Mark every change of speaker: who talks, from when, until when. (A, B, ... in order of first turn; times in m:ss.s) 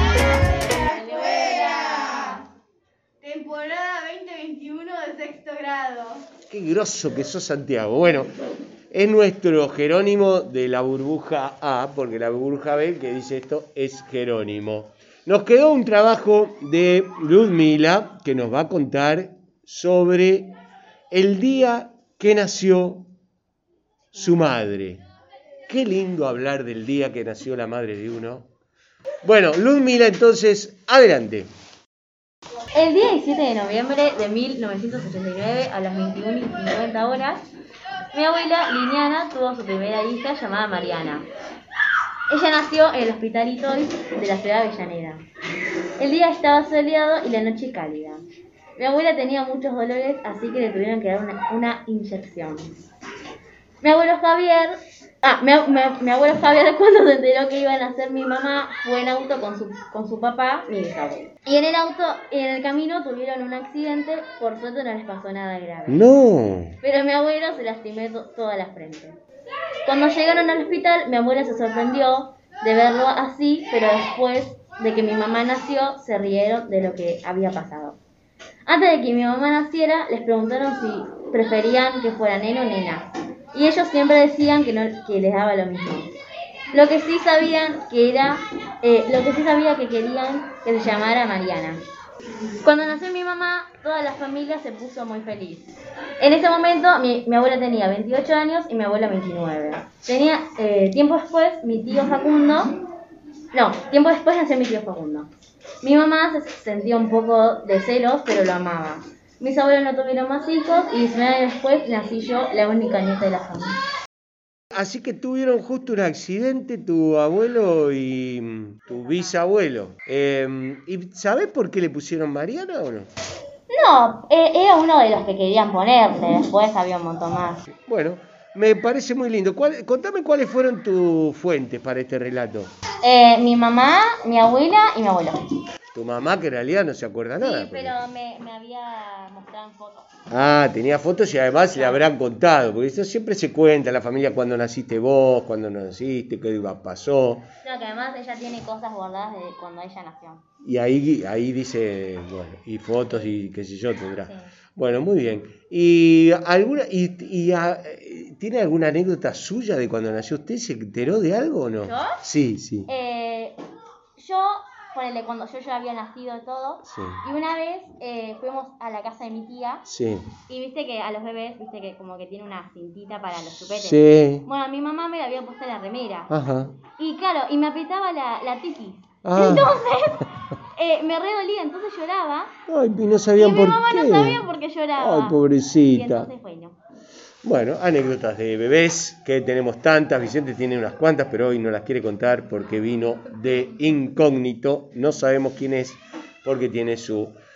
0:00.6-0:02.4 A
0:01.1-0:01.7 B
0:03.2-0:06.2 B
0:06.5-0:08.3 C
0:08.9-0:20.5 C
0:21.1-0:23.1 C
0:24.1-0:25.0 C
0:25.7-0:28.5 C
0:29.2-0:31.5 C
0:32.7-0:37.4 A
0:38.1-0:41.3 A
0:42.3-0:45.2 A
0:46.0-0:48.2 A
0:48.8-0:52.8 A
0:53.8-1:06.1 A
1:05.9-1:06.8 C
1:06.8-1:09.2 A
1:09.9-1:18.0 A
1:18.7-1:26.1 A
1:26.7-1:31.8 A
1:32.6-1:42.8 A
1:43.5-1:45.3 A
1:45.8-1:53.8 A
1:54.7-2:03.1 C
2:03.7-2:07.6 A
2:07.9-2:12.7 C
2:13.0-2:15.4 A
2:15.9-2:18.0 C
2:17.4-2:20.1 A
2:20.3-2:27.5 C
2:21.7-2:22.0 A
2:27.6-2:30.4 A
2:30.6-2:42.9 C
2:41.8-2:42.2 A
2:42.9-2:43.6 A
2:44.2-2:49.8 A
2:46.9-2:47.2 C
2:49.9-2:50.3 C
2:50.5-2:56.3 A
2:53.8-2:54.4 C
2:56.3-2:56.8 C
2:56.8-3:02.5 A
2:59.2-2:59.8 C
3:02.7-3:04.4 C
3:03.4-3:06.8 A
3:05.0-3:06.3 C
3:07.4-3:17.4 C